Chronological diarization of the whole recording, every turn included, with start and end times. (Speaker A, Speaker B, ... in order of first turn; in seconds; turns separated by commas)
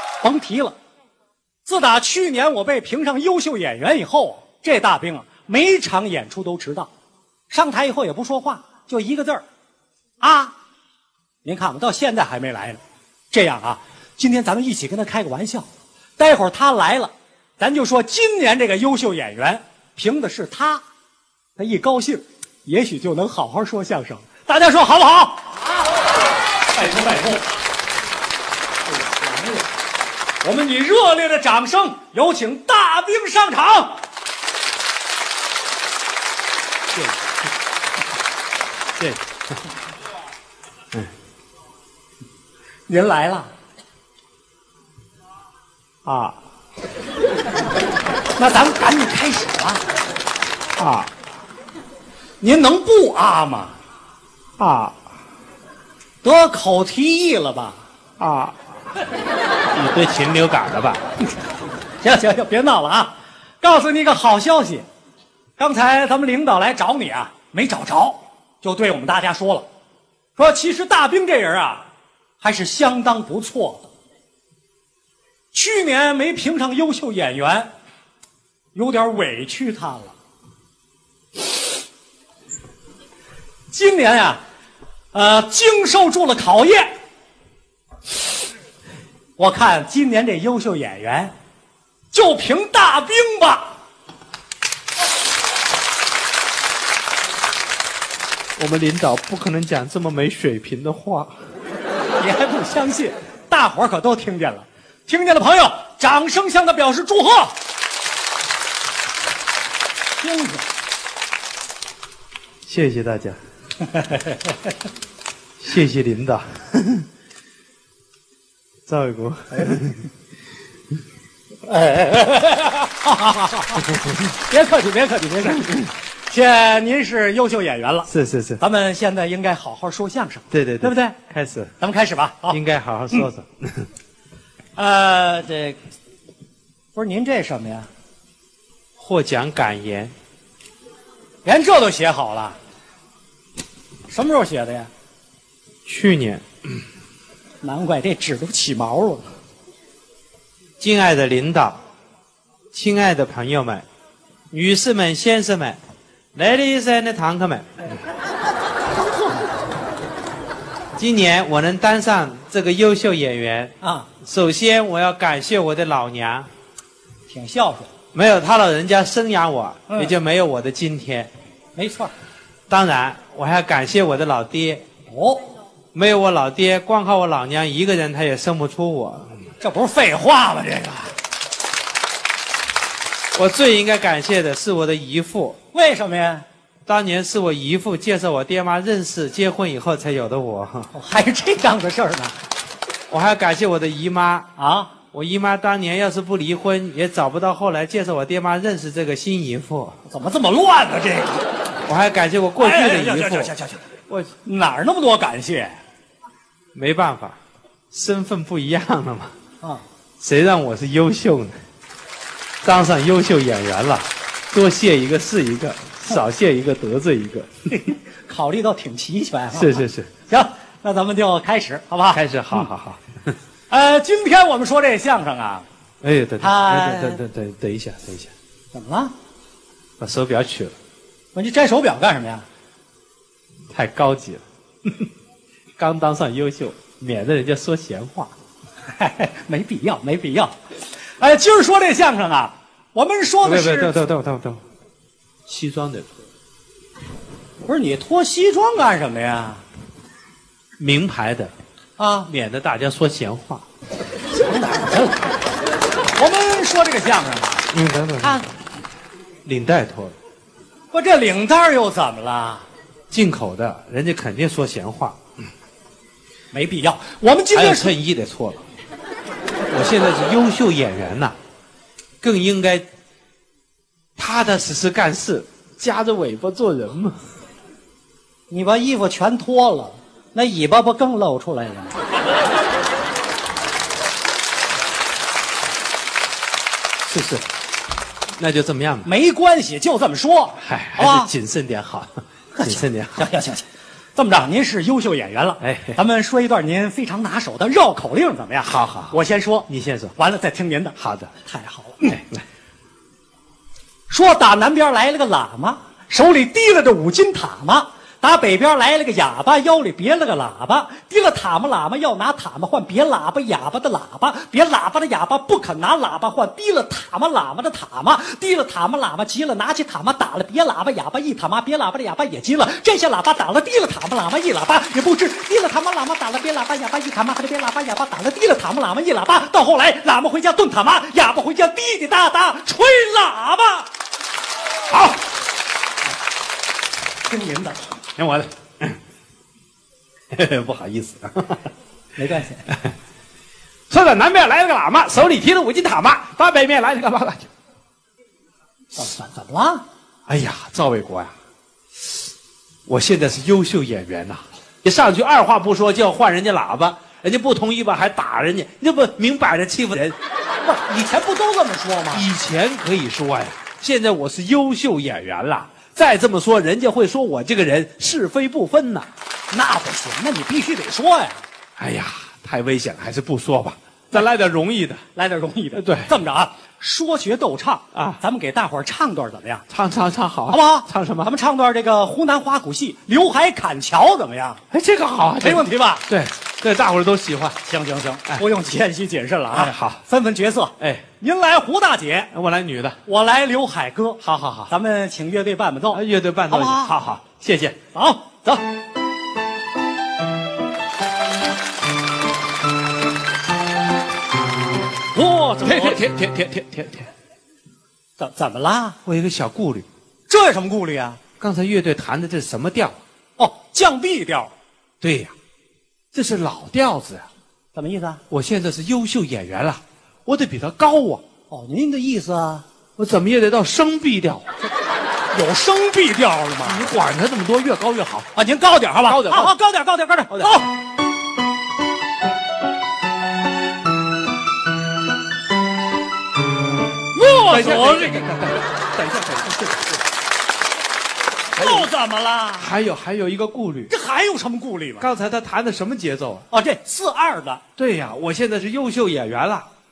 Speaker A: 0.2-0.8, Speaker A: 1.6-6.9, Speaker A: 7.5-9.5, Speaker A: 10.2-10.5, Speaker A: 11.4-12.8, Speaker A: 13.3-15.7, Speaker A: 16.2-20.8, Speaker A: 21.6-25.5, Speaker A: 26.7-27.4, Speaker A: 28.9-29.7, Speaker A: 30.4-34.0, Speaker B: 39.0-39.2, Speaker A: 42.9-43.5, Speaker B: 46.0-46.4, Speaker A: 48.4-49.8, Speaker B: 50.8-51.1, Speaker A: 52.4-53.8, Speaker B: 54.6-55.0, Speaker A: 56.2-57.8, Speaker B: 58.2-58.5, Speaker B: 59.7-61.0, Speaker A: 62.0-64.9, Speaker A: 65.6-69.7, Speaker A: 70.4-71.9, Speaker A: 72.4-73.9, Speaker A: 75.5-77.7, Speaker A: 78.8-80.2, Speaker A: 83.7-84.4, Speaker A: 85.1-87.0, Speaker A: 89.4-91.3, Speaker A: 92.1-93.8, Speaker B: 98.6-101.4, Speaker A: 102.2-107.6, Speaker A: 110.2-110.7, Speaker B: 112.7-113.4, Speaker A: 114.0-114.4, Speaker B: 115.6-117.1, Speaker B: 118.9-120.1, Speaker A: 121.7-131.2, Speaker B: 128.1-128.6, Speaker B: 130.5-131.7, Speaker A: 131.8-132.6, Speaker B: 132.5-133.9, Speaker A: 134.8-135.8, Speaker A: 136.9-137.9, Speaker B: 139.0-140.1, Speaker A: 141.4-142.6, Speaker A: 144.1-144.9, Speaker B: 145.8-146.4, Speaker A: 147.6-149.3, Speaker B: 150.8-151.8, Speaker B: 152.7-153.8, Speaker B: 154.5-155.8, Speaker B: 156.3-157.7, Speaker B: 161.0-166.5, Speaker A: 163.8-164.1, Speaker A: 167.3-167.9, Speaker B: 168.1-171.3, Speaker A: 169.9-170.1, Speaker A: 171.8-172.1, Speaker B: 172.7-174.8, Speaker A: 175.1-175.5, Speaker B: 175.9-179.3, Speaker A: 179.6-181.1, Speaker B: 183.3-185.6, Speaker A: 185.7-186.4, Speaker B: 186.9-190.9, Speaker A: 190.9-192.4, Speaker B: 193.1-194.5, Speaker A: 194.6-194.9, Speaker B: 195.1-200.0, Speaker A: 200.1-201.5, Speaker B: 201.8-203.5, Speaker A: 202.6-203.9, Speaker A: 204.4-205.8, Speaker B: 206.8-207.4, Speaker B: 207.9-209.3, Speaker B: 210.2-211.6, Speaker B: 212.6-217.5, Speaker A: 217.7-222.7, Speaker B: 219.5-220.1, Speaker B: 222.1-223.0, Speaker A: 223.7-225.7, Speaker B: 226.0-228.3, Speaker A: 226.4-227.2, Speaker A: 228.7-229.1, Speaker B: 230.0-230.7, Speaker A: 231.3-232.4, Speaker B: 233.7-235.1, Speaker B: 235.8-238.3, Speaker A: 238.9-240.5, Speaker A: 241.2-244.0, Speaker B: 243.4-244.6, Speaker B: 245.5-246.1, Speaker A: 247.7-249.6, Speaker B: 250.8-251.5, Speaker A: 252.0-252.3, Speaker B: 252.3-253.6, Speaker A: 254.3-255.2, Speaker A: 256.1-257.6, Speaker B: 257.7-258.4, Speaker B: 259.4-260.1, Speaker A: 260.9-262.6, Speaker B: 263.1-265.2, Speaker A: 266.5-267.9, Speaker B: 267.5-268.6, Speaker B: 269.7-271.3, Speaker B: 272.2-272.9, Speaker B: 274.2-277.1, Speaker A: 278.5-282.0, Speaker B: 287.0-287.4, Speaker B: 288.4-289.1, Speaker A: 289.0-291.3, Speaker B: 290.6-293.3, Speaker A: 292.6-302.2, Speaker B: 295.6-296.0, Speaker B: 298.6-300.1, Speaker B: 301.0-301.3, Speaker B: 302.0-302.4, Speaker A: 304.1-333.9, Speaker B: 334.9-335.2, Speaker A: 337.3-337.8, Speaker B: 338.2-339.0, Speaker B: 340.3-341.7, Speaker A: 342.1-342.7, Speaker B: 343.9-347.5, Speaker A: 348.9-349.8, Speaker B: 350.3-351.3, Speaker B: 352.9-360.1, Speaker A: 360.6-362.2, Speaker B: 362.1-369.1, Speaker A: 369.5-371.4, Speaker B: 371.8-375.0, Speaker A: 375.1-379.6, Speaker B: 375.7-376.1, Speaker B: 377.9-378.2, Speaker B: 379.7-381.3, Speaker A: 380.5-384.6, Speaker B: 384.7-387.6, Speaker A: 385.4-386.0, Speaker A: 387.6-392.3, Speaker B: 389.5-390.0, Speaker B: 390.8-391.0, Speaker B: 392.3-393.0, Speaker A: 393.1-396.9, Speaker B: 394.2-394.7, Speaker B: 395.9-397.8, Speaker A: 397.9-398.6, Speaker A: 405.1-406.1, Speaker B: 405.6-407.1, Speaker A: 408.2-409.0, Speaker B: 409.0-409.9, Speaker A: 410.3-411.2, Speaker B: 411.4-413.0, Speaker A: 413.4-414.5, Speaker B: 415.0-415.3, Speaker B: 416.1-417.2, Speaker A: 417.7-418.2, Speaker B: 418.3-421.2, Speaker A: 421.5-422.6, Speaker B: 423.0-424.5, Speaker A: 425.3-426.9, Speaker B: 426.6-428.3, Speaker A: 428.3-430.7, Speaker B: 429.1-429.5, Speaker B: 430.3-430.6, Speaker A: 437.1-438.2, Speaker B: 437.5-440.0, Speaker A: 441.5-442.7, Speaker B: 441.6-441.9, Speaker B: 442.6-443.9, Speaker A: 443.9-445.1, Speaker B: 445.0-446.4, Speaker A: 446.5-447.6, Speaker B: 447.8-449.7